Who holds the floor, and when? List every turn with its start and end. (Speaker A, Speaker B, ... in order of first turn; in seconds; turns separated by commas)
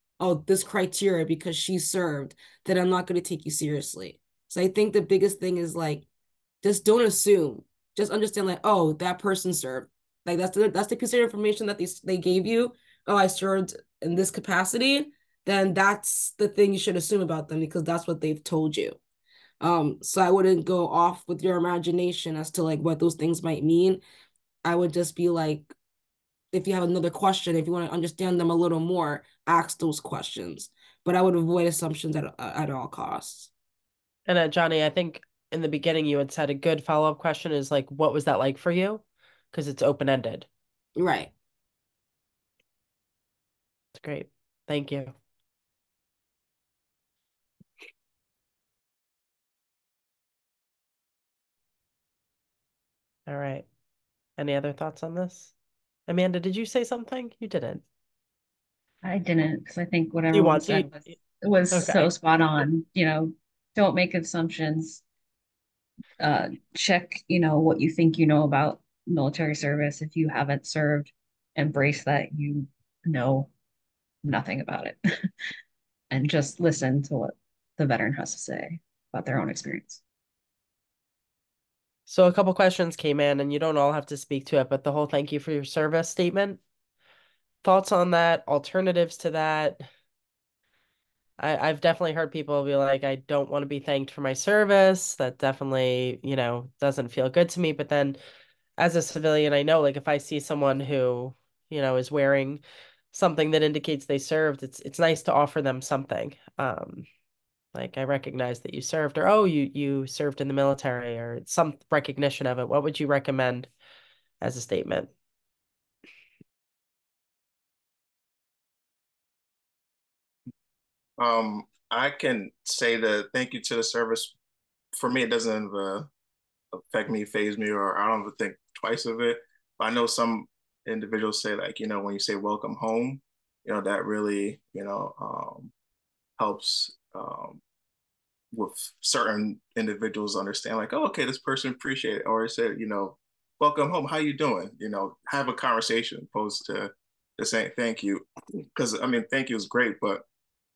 Speaker A: 0.2-6.0, Speaker A: 6.6-19.0, Speaker A: 19.6-24.0, Speaker A: 24.6-25.7, Speaker A: 26.5-33.5, Speaker B: 34.3-40.5, Speaker A: 41.0-41.3, Speaker B: 44.0-45.1, Speaker B: 53.3-53.6, Speaker B: 54.4-55.5, Speaker B: 56.1-57.8, Speaker C: 59.0-65.0, Speaker B: 60.3-61.1, Speaker B: 61.7-62.1, Speaker C: 66.2-73.5, Speaker C: 74.2-75.0, Speaker C: 76.1-80.0, Speaker B: 82.1-86.6, Speaker B: 87.6-89.9, Speaker B: 91.4-98.2, Speaker B: 98.8-102.6, Speaker B: 103.1-107.0, Speaker B: 107.7-113.7, Speaker B: 114.4-115.1, Speaker D: 121.2-124.3, Speaker D: 124.9-126.1, Speaker D: 126.7-135.7, Speaker D: 136.4-137.6, Speaker D: 138.5-148.2, Speaker D: 148.8-150.2